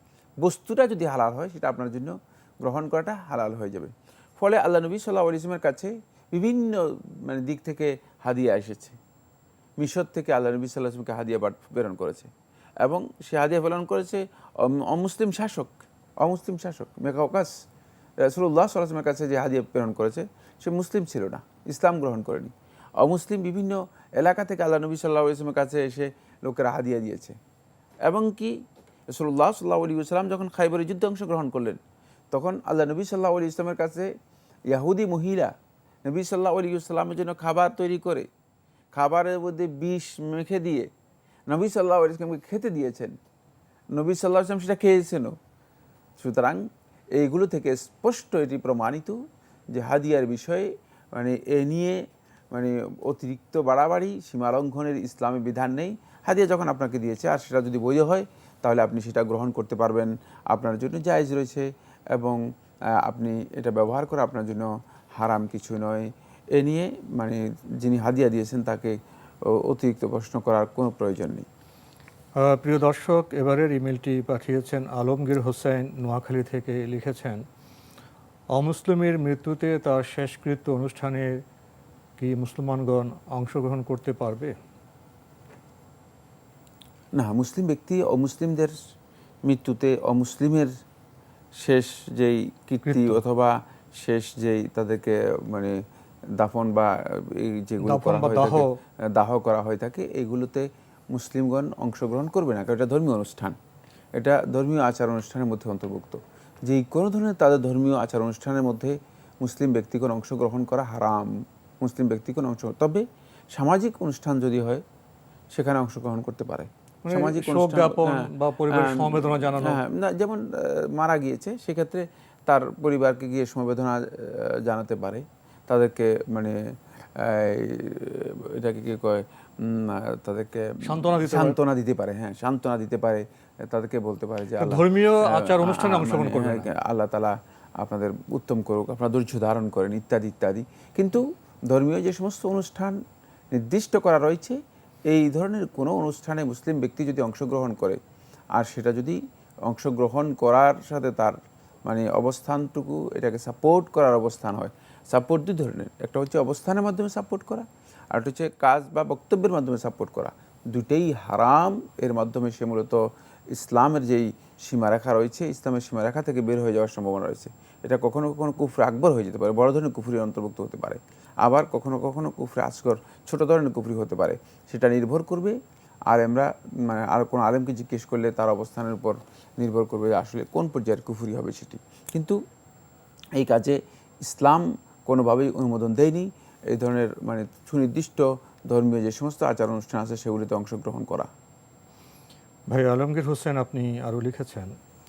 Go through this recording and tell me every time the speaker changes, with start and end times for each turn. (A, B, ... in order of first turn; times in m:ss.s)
0:00.4-0:09.0 A
0:09.8-0:12.3 A
0:12.8-0:17.5 A
0:18.2-0:27.4 A
0:28.0-0:28.6 A
0:29.1-0:31.8 A
0:32.3-0:34.1 A
0:34.7-0:35.5 A
0:36.0-0:38.3 A
0:38.9-0:40.9 A
0:41.5-0:43.2 A
0:43.9-0:45.4 A
0:46.2-0:46.6 A
0:47.2-0:49.2 A
0:49.7-0:52.0 A
0:52.5-1:02.4 A
1:03.0-1:11.5 A
1:12.4-1:17.4 B
1:18.6-1:21.4 B
1:22.2-1:24.6 B
1:27.2-1:28.7 A
1:29.4-1:30.7 A
1:31.6-1:35.8 A
1:32.8-1:33.2 B
1:36.4-1:43.6 A
1:37.8-1:38.7 B
1:44.2-1:54.8 A
1:55.5-2:23.0 A
1:57.0-1:59.8 B
2:10.8-2:11.6 B
2:14.6-2:16.7 B
2:23.5-2:24.6 A
2:25.1-2:28.0 A
2:28.6-2:55.6 A
2:56.1-3:02.4 A
3:03.4-3:11.3 A
3:12.7-3:14.7 B